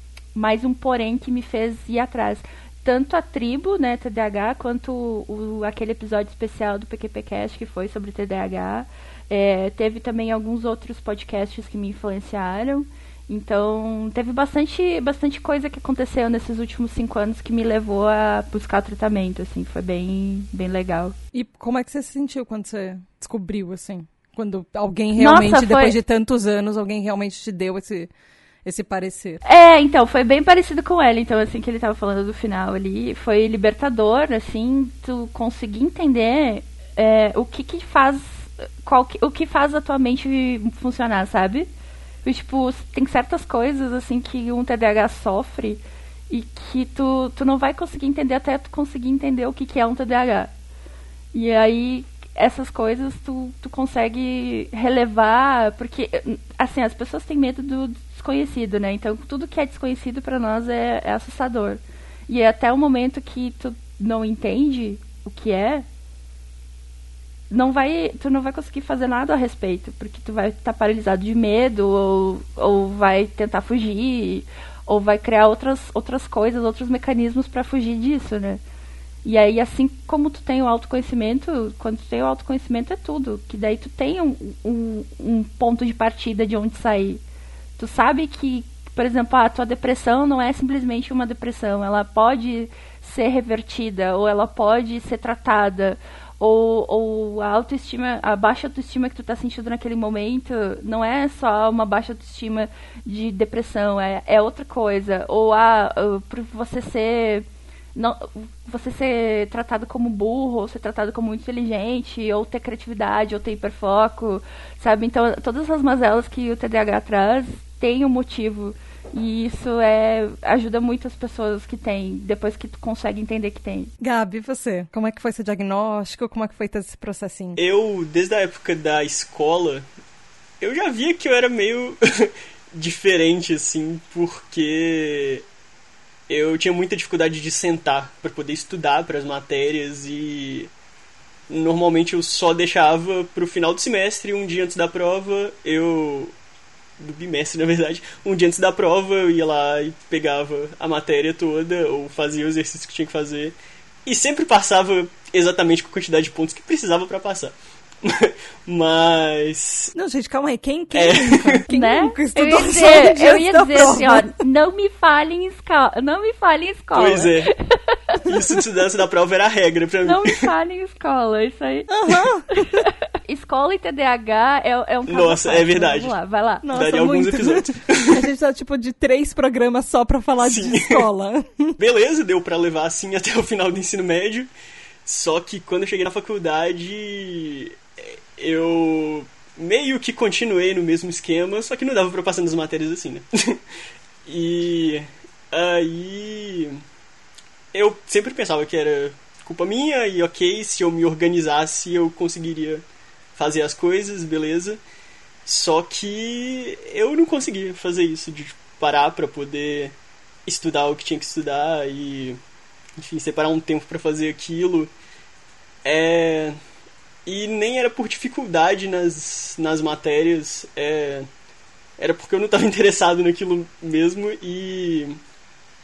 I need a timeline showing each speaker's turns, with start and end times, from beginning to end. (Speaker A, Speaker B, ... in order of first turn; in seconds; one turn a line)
Speaker A: 0.3-21.1
Speaker B: 21.3-28.1
Speaker A: 25.2-26.0
Speaker B: 28.6-29.4
Speaker A: 29.4-41.7
Speaker A: 42.2-50.5
Speaker A: 51.3-65.8
Speaker A: 67.5-78.6
Speaker A: 79.2-87.2
Speaker A: 87.8-123.9
Speaker B: 124.0-127.6
Speaker C: 127.6-129.8
Speaker C: 130.6-135.4
Speaker C: 136.3-140.7
Speaker C: 141.5-146.3
Speaker C: 147.0-153.6
Speaker C: 154.1-159.9
Speaker B: 159.9-164.3
Speaker C: 160.9-161.6
Speaker A: 161.7-168.4
Speaker C: 166.9-167.5
Speaker C: 168.3-170.5
Speaker A: 170.0-171.9
Speaker B: 171.9-172.8
Speaker A: 172.6-176.7
Speaker C: 175.1-176.2
Speaker B: 176.6-181.8
Speaker C: 176.7-178.3
Speaker C: 180.4-181.1
Speaker C: 181.8-184.5
Speaker C: 185.1-193.6
Speaker C: 194.3-196.8
Speaker C: 197.7-202.8
Speaker C: 203.4-204.8
Speaker C: 205.5-209.9
Speaker C: 210.5-212.4
Speaker C: 213.0-214.9
Speaker C: 215.8-216.6
Speaker C: 217.3-221.3
Speaker C: 222.0-225.2